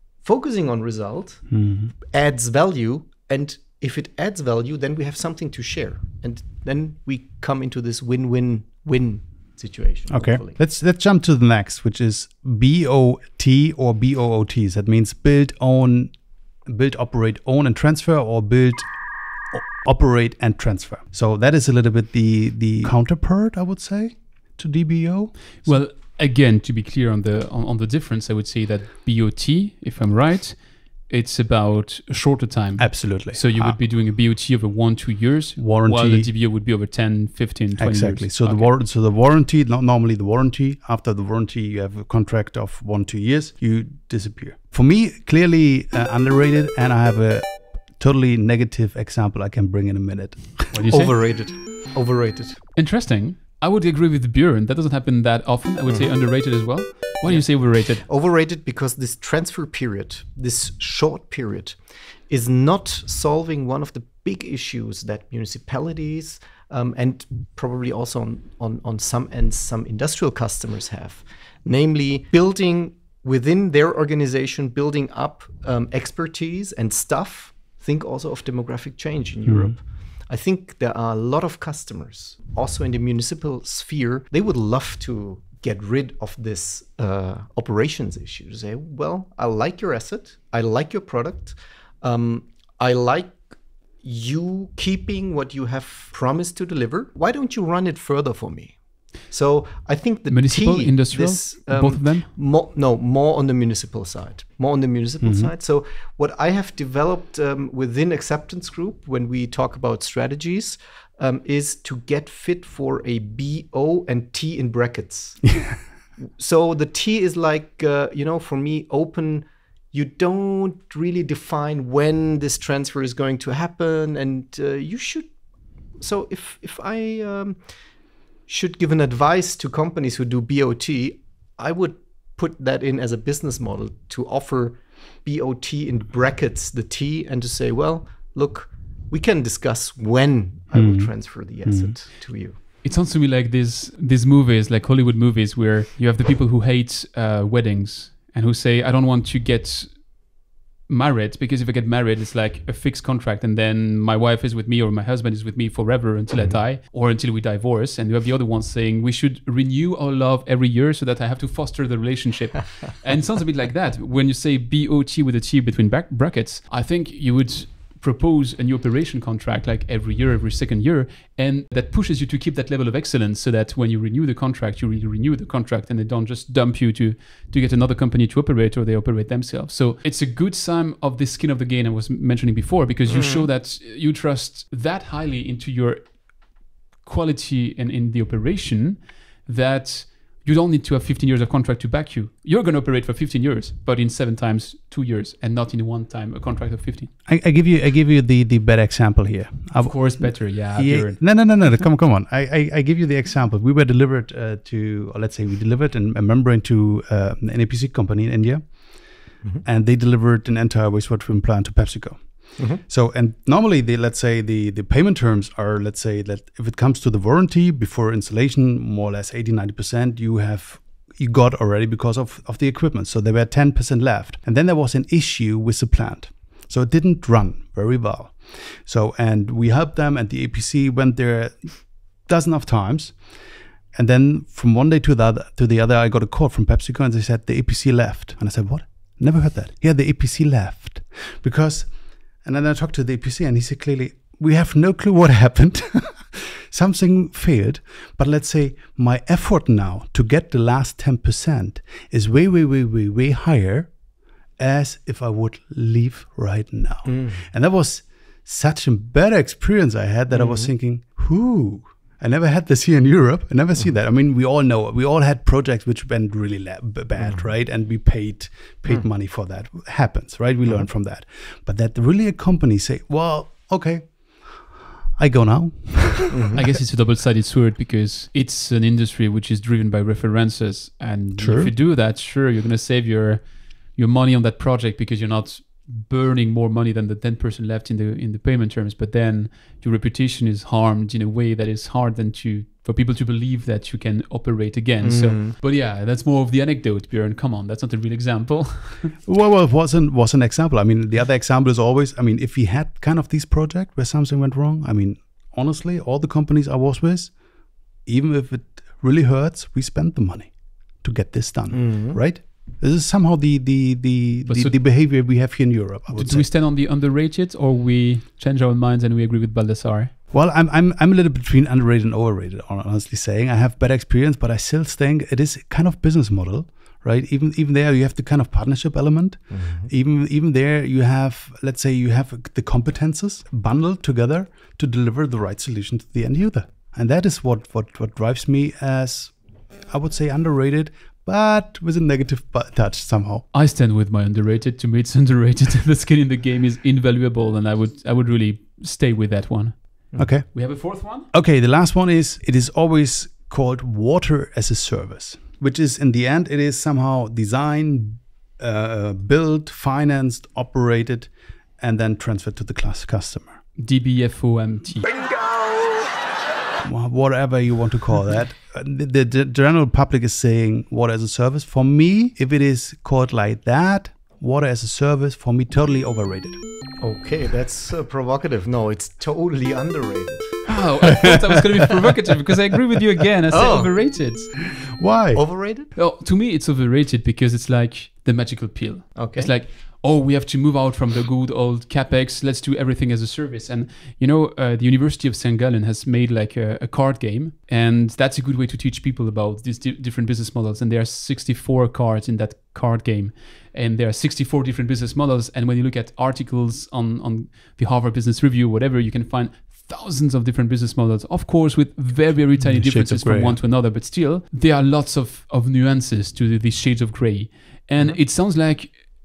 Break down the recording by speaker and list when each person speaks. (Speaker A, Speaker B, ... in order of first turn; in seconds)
Speaker A: 0.2-1.6, 2.1-10.6, 50.9-52.6, 57.3-61.8, 62.3-93.4, 94.0-98.8, 99.3-115.6, 116.3-125.3, 126.0-127.6, 128.5-142.6, 183.1-183.5, 212.6-212.8, 257.1-257.4, 260.3-260.7, 267.2-267.5, 276.3-276.6, 295.0-295.6, 311.7-312.2, 329.5-329.9, 377.0-380.6, 383.5-383.9, 385.4-385.9, 389.2-389.5
Speaker B: 1.5-1.9, 10.1-16.1, 16.7-18.9, 19.5-25.8, 32.8-33.8, 35.6-36.3, 37.8-50.7, 79.5-79.8, 105.2-105.5, 115.4-115.8, 140.7-141.1, 141.6-142.0, 197.3-208.7, 209.7-233.2, 233.9-241.9, 242.4-253.9, 254.6-274.5, 275.2-276.4, 281.4-281.7, 299.2-307.3, 308.1-316.5, 320.3-339.3, 339.9-343.4, 350.2-350.6, 351.3-363.6, 366.8-376.6, 385.0-385.4, 412.6-413.6
Speaker C: 25.6-30.6, 31.1-38.7, 50.7-51.1, 52.8-58.0, 100.3-102.3, 142.8-150.0, 150.9-186.1, 187.0-197.1, 199.8-201.8, 276.6-283.4, 284.0-299.1, 314.5-314.8, 316.1-320.1, 343.5-349.8, 350.4-351.3, 363.8-365.2, 380.7-384.5, 385.9-419.0